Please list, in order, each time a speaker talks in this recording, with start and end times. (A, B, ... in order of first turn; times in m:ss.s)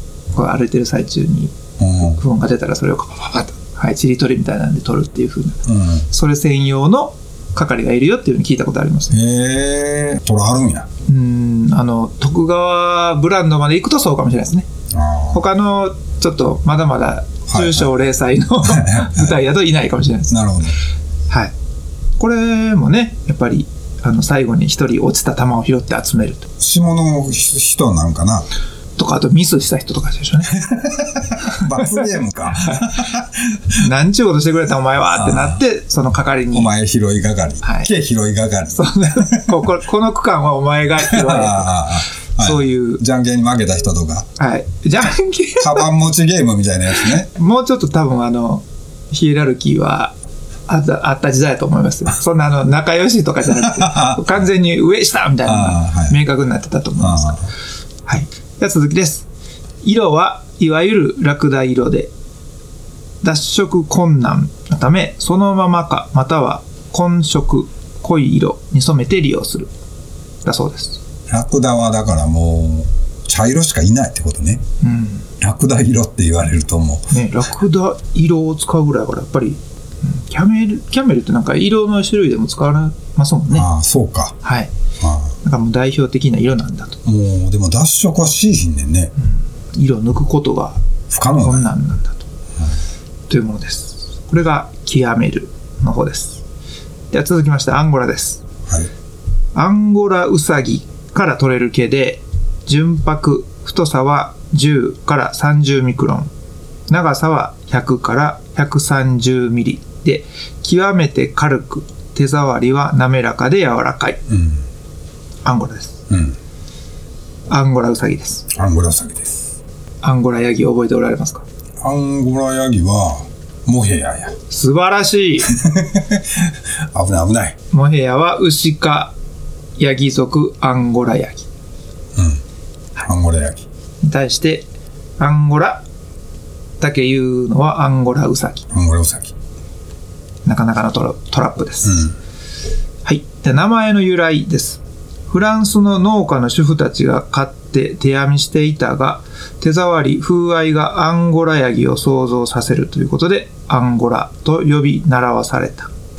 0:00.3-0:01.6 A
0:01.8-0:02.2 B
0:02.2-0:09.2 A
0:05.7-0:06.1 B
0:09.1-0:10.9 B
0:11.1-0:14.7 A
0:14.9-0:15.4 B
0:15.3-0:20.4 A
0:17.5-0:17.9 B
0:18.6-0:19.4 B
0:20.3-0:20.8 B
0:22.2-0:26.5 A
0:26.6-0:28.5 B
0:29.0-0:30.6 A
0:30.6-0:33.7 B
0:31.8-0:32.0 A
0:32.6-0:33.0 A
0:33.8-0:36.7 A
0:35.1-0:35.6 B
0:36.5-0:39.5 B
0:37.6-0:37.9 A
0:38.8-0:43.0 A
0:41.0-0:44.3 B
0:44.4-0:45.9 A
0:45.6-0:47.3 B
0:47.0-0:50.1 A
0:50.7-0:57.4 A
0:53.5-0:54.5 B
0:55.4-0:56.2 B
0:57.0-0:57.5 B
0:58.1-0:59.3 A
0:59.8-1:02.1 A
1:03.2-1:09.7 A
1:10.4-1:11.0 A
1:11.3-1:14.6 B
1:14.8-1:15.3 A
1:15.4-1:17.1 B
1:17.1-1:23.7 A
1:23.5-1:24.4 B
1:24.4-1:24.7 A
1:25.0-1:25.4 B
1:25.4-1:27.0 A
1:27.0-1:29.1 B
1:29.7-1:30.8 A
1:31.1-1:31.7 B
1:31.4-1:32.2 A
1:33.3-1:36.4 A
1:37.1-1:38.4 A
1:39.6-1:46.3 A
1:46.9-1:54.2 A
1:54.3-1:54.6 B
1:55.4-1:56.0 A
1:56.1-1:56.4 B
1:57.5-1:58.4 A
1:58.5-1:59.5 B
2:00.0-2:01.4 A
2:01.8-2:04.4 B
2:04.5-2:05.5 A
2:05.5-2:07.6 B
2:07.7-2:09.1 A
2:09.8-2:11.5 A
2:12.2-2:12.4 B
2:13.0-2:13.7 B
2:14.0-2:14.7 A
2:15.2-2:15.8 A
2:16.8-2:18.6 A
2:18.7-2:19.3 B
2:20.4-2:22.0 A
2:21.8-2:22.2 B
2:23.0-2:35.9 A